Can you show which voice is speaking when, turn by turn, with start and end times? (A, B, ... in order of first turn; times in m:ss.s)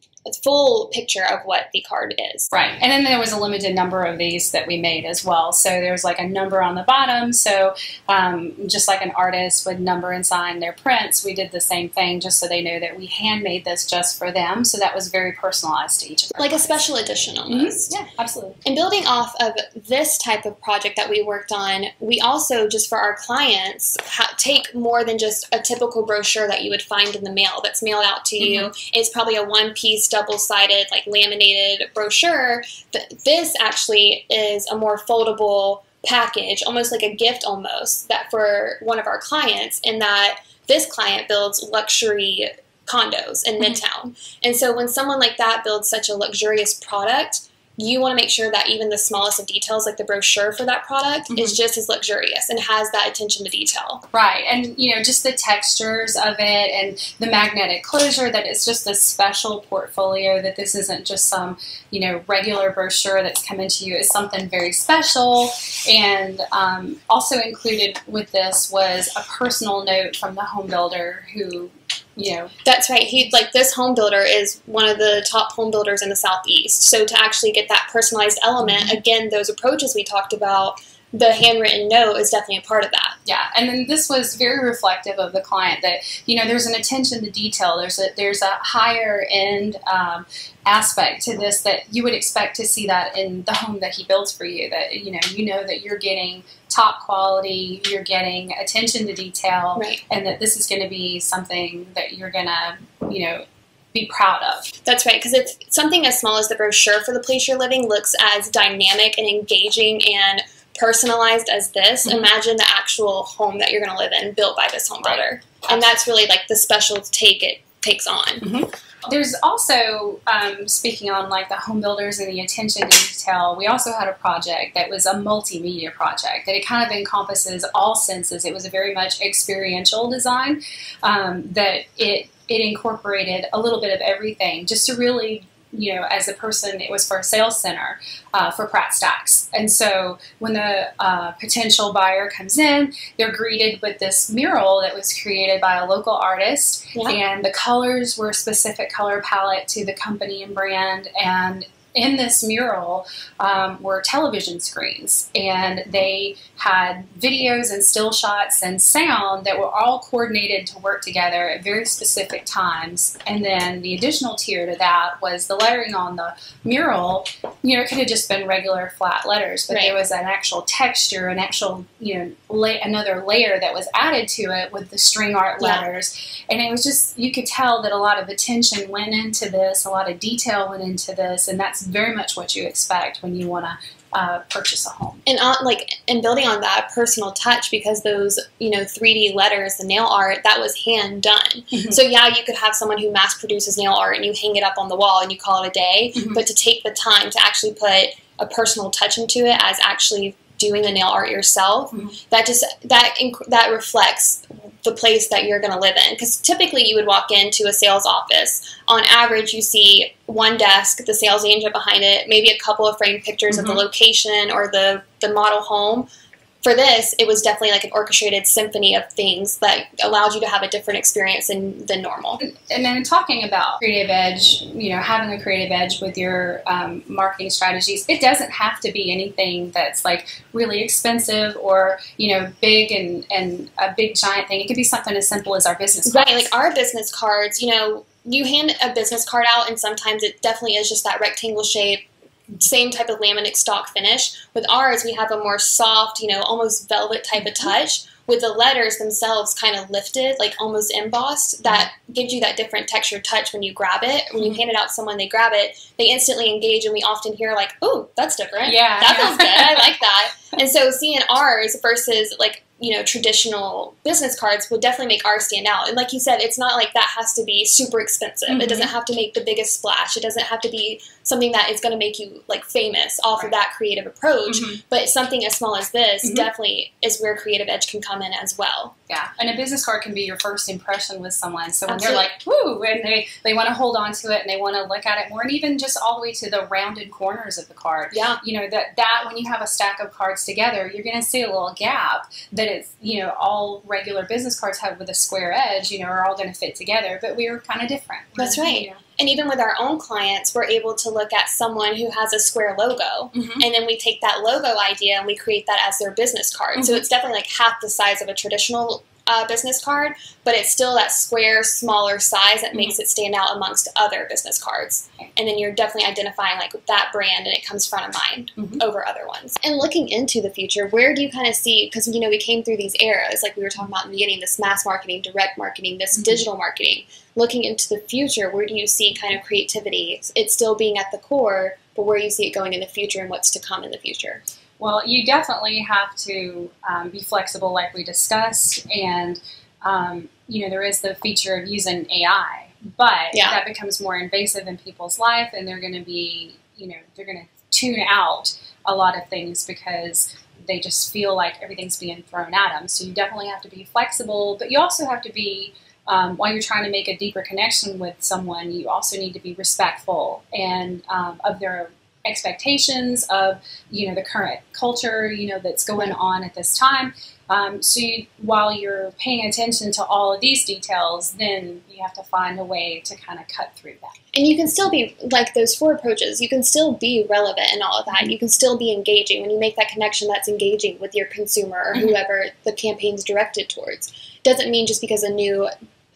0:00.2-0:02.5 A
0:02.5-0:16.8 B
0:16.4-0:17.9 A
0:17.5-0:18.6 B
0:18.6-0:54.0 A
0:28.4-0:28.7 B
0:51.3-0:51.6 B
0:54.1-1:12.5 B
1:12.6-1:23.2 A
1:18.6-1:19.0 B
1:23.3-1:44.7 B
1:44.8-1:58.4 A
1:55.0-1:55.9 B
1:58.4-3:05.2 B
2:49.7-2:50.0 A
2:55.6-2:55.8 A
3:05.3-3:36.1 A
3:11.7-3:12.0 B
3:16.1-3:16.4 B
3:21.9-3:22.2 B
3:33.5-3:33.8 B
3:36.6-3:42.4 A
3:42.4-3:56.5 B
3:56.1-4:02.1 A
4:02.6-4:39.0 A
4:18.6-4:20.0 B
4:28.5-4:28.9 B
4:34.5-4:34.8 B
4:39.1-4:59.0 B
4:41.9-4:42.3 A
4:48.1-4:48.4 A
4:58.4-5:34.4 A
5:03.3-5:03.6 B
5:06.8-5:07.0 B
5:26.2-5:26.4 B
5:34.8-6:14.2 B
5:43.3-5:43.6 A
6:14.3-6:25.7 A